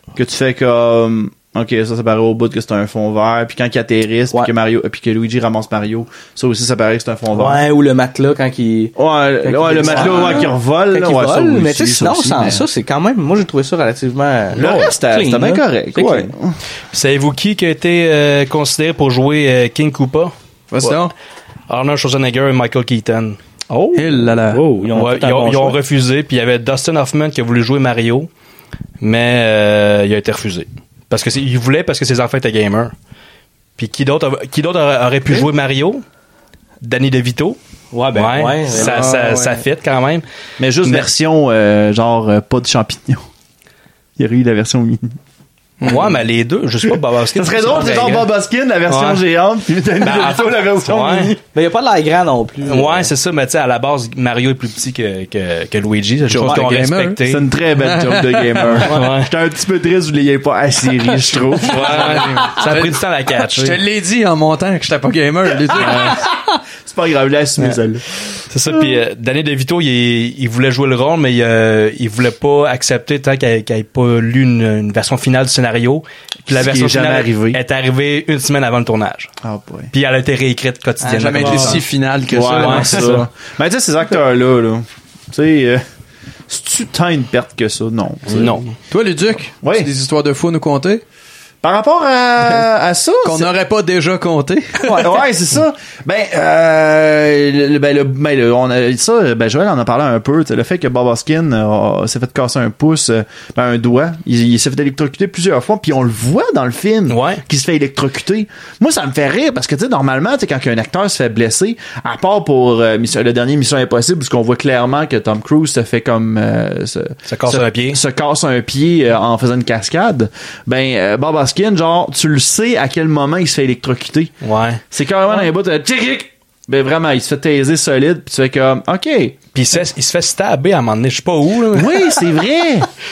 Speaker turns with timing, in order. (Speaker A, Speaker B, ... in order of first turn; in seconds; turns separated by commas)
Speaker A: 0.1-7.6, Speaker B: 7.3-16.3, Speaker A: 8.9-12.7, Speaker A: 14.5-16.6, Speaker C: 16.9-20.3, Speaker D: 20.7-21.1, Speaker C: 21.7-23.4, Speaker A: 23.7-24.2, Speaker D: 23.9-24.6, Speaker B: 24.5-25.8, Speaker C: 24.9-28.3, Speaker C: 29.0-32.9, Speaker C: 33.8-36.0, Speaker C: 36.8-37.6, Speaker B: 37.9-39.0, Speaker C: 38.1-40.2, Speaker D: 38.7-39.6, Speaker A: 40.6-43.2, Speaker A: 44.2-45.1, Speaker D: 45.8-46.1, Speaker C: 45.8-48.3, Speaker A: 47.3-51.3, Speaker C: 48.9-49.2, Speaker C: 50.0-51.3, Speaker B: 51.3-53.1, Speaker C: 52.6-57.4, Speaker D: 56.3-57.2, Speaker A: 57.2-62.2, Speaker D: 57.8-58.8, Speaker C: 58.8-59.3, Speaker C: 61.6-63.8, Speaker D: 61.7-66.2, Speaker A: 66.8-68.0, Speaker C: 68.5-79.3, Speaker A: 76.5-77.6, Speaker A: 79.4-79.9, Speaker C: 79.9-81.8, Speaker D: 81.0-83.2, Speaker B: 81.4-81.8, Speaker A: 82.3-85.8, Speaker C: 82.4-83.2, Speaker A: 86.5-88.7, Speaker C: 88.3-88.7, Speaker D: 88.9-91.0, Speaker A: 89.6-89.9, Speaker A: 91.6-93.5, Speaker D: 93.2-94.8, Speaker B: 94.8-95.2, Speaker A: 94.9-124.3, Speaker C: 107.1-107.4, Speaker C: 117.3-118.0, Speaker C: 124.4-124.8, Speaker A: 124.9-129.4, Speaker C: 129.5-132.2, Speaker A: 131.7-132.9